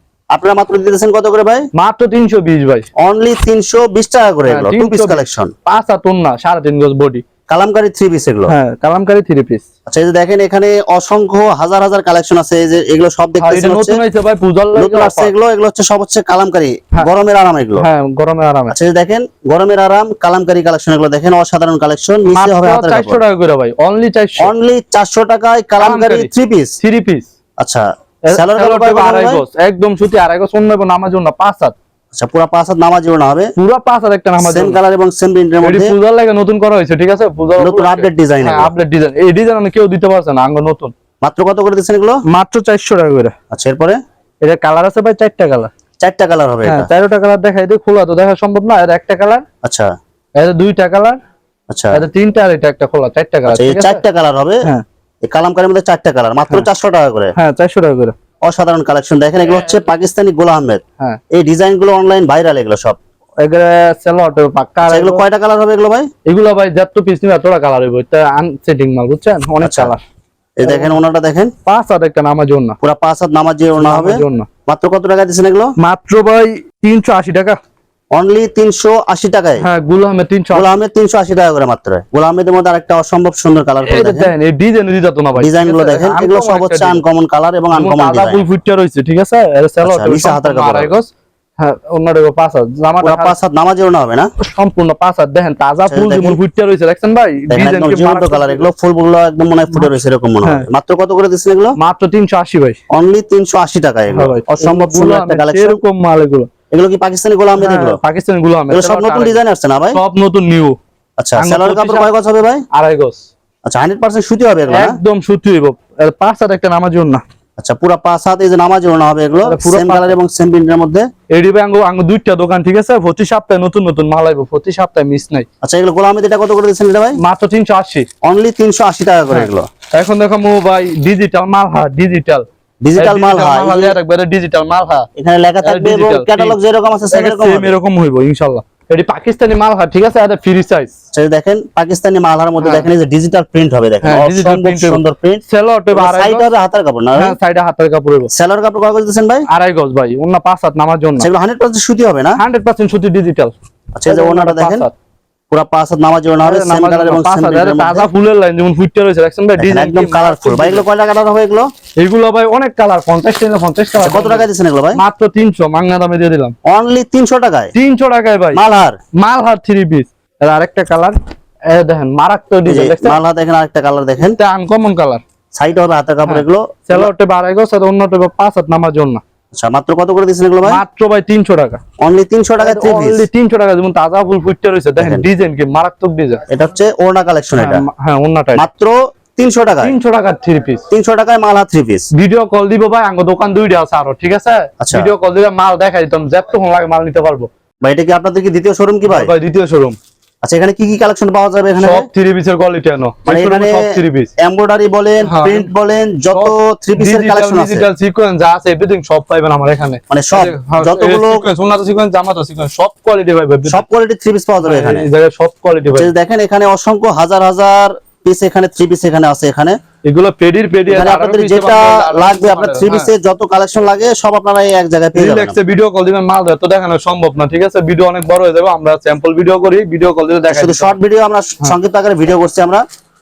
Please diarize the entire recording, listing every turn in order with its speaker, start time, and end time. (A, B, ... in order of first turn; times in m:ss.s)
0:00.3-0:01.7 A
0:01.7-0:02.9 B
0:03.0-0:05.5 A
0:04.5-0:07.2 B
0:07.5-0:08.5 A
0:08.5-0:09.6 B
0:09.9-0:14.0 A
0:13.4-0:15.3 B
0:14.8-0:17.8 A
0:17.8-0:18.7 B
0:18.7-0:23.2 A
0:22.3-0:24.5 B
0:24.4-0:26.8 A
0:25.8-0:26.3 B
0:26.8-0:27.3 B
0:27.6-0:29.4 A
0:28.2-0:31.7 B
0:32.1-0:33.5 A
0:33.6-0:34.8 B
0:34.4-0:35.9 A
0:35.6-0:40.9 B
0:37.6-0:38.7 A
0:41.2-0:42.2 A
0:42.2-0:43.3 B
0:43.5-0:44.0 A
0:44.4-0:45.7 B
0:46.0-0:46.9 A
0:46.6-0:49.4 B
0:49.6-0:49.9 A
0:50.4-0:51.2 B
0:51.7-0:52.0 A
0:51.9-0:54.0 B
0:53.5-0:54.7 A
0:55.2-0:57.3 A
0:57.4-0:58.1 B
0:58.4-1:03.0 A
1:03.4-1:05.2 B
1:04.9-1:06.1 A
1:06.2-1:10.0 B
1:09.6-1:09.9 A
1:10.6-1:11.5 A
1:10.6-1:11.0 B
1:11.6-1:12.8 B
1:12.8-1:15.7 A
1:13.8-1:14.5 B
1:15.8-1:17.6 B
1:18.1-1:19.6 A
1:19.6-1:20.7 B
1:20.5-1:24.3 A
1:23.8-1:27.0 B
1:25.4-1:28.4 A
1:27.7-1:33.3 B
1:29.8-1:30.9 A
1:33.0-1:34.3 A
1:34.4-1:38.7 B
1:35.9-1:36.4 A
1:37.5-1:41.8 A
1:39.7-1:40.6 B
1:41.8-1:42.8 B
1:42.9-1:45.8 A
1:44.1-1:46.5 B
1:46.7-1:48.0 A
1:47.6-1:49.4 B
1:48.7-1:50.0 A
1:49.9-1:50.8 B
1:51.2-1:52.6 A
1:51.4-1:52.1 B
1:52.7-1:53.2 B
1:53.6-1:55.0 A
1:54.7-1:57.2 B
1:57.6-2:01.0 A
1:59.4-2:00.2 B
2:01.3-2:05.5 B
2:05.6-2:07.2 A
2:07.2-2:08.1 B
2:08.2-2:09.7 A
2:09.3-2:15.1 B
2:12.8-2:14.0 A
2:15.2-2:17.8 A
2:15.6-2:16.6 B
2:17.1-2:20.9 B
2:21.1-2:25.4 A
2:22.6-2:22.9 B
2:24.0-2:26.5 B
2:25.9-2:27.4 A
2:27.2-2:28.3 B
2:28.3-2:29.4 A
2:29.5-2:31.3 B
2:31.2-2:32.4 A
2:32.4-2:33.5 B
2:33.9-2:34.9 A
2:34.1-2:34.9 B
2:35.5-2:38.1 A
2:36.4-2:40.8 B
2:39.6-2:41.7 A
2:42.0-2:46.5 B
2:44.0-2:45.0 A
2:46.6-2:47.7 A
2:47.7-2:48.6 B
2:48.5-2:49.0 A
2:49.1-2:51.2 B
2:51.7-2:53.2 B
2:52.6-2:54.4 A
2:54.2-2:55.2 B
2:55.5-2:57.1 A
2:56.2-2:59.2 B
2:59.5-3:00.8 A
3:00.6-3:01.8 B
3:02.0-3:03.3 A
3:02.6-3:06.4 B
3:05.0-3:05.3 A
3:06.5-3:07.8 A
3:07.6-3:08.6 B
3:08.6-3:10.0 A
3:09.8-3:10.8 B
3:10.9-3:12.1 A
3:12.1-3:17.5 B
3:14.8-3:15.1 A
3:17.8-3:19.3 A
3:19.1-3:20.0 B
3:20.4-3:22.1 A
3:21.8-3:24.3 B
3:23.2-3:27.9 A
3:25.2-3:25.7 B
3:26.3-3:33.8 B
3:30.1-3:31.5 A
3:33.6-3:35.1 A
3:34.6-3:36.1 B
3:35.9-3:39.8 A
3:40.0-3:43.1 B
3:40.9-3:45.6 A
3:45.1-3:51.0 B
3:50.5-3:52.8 A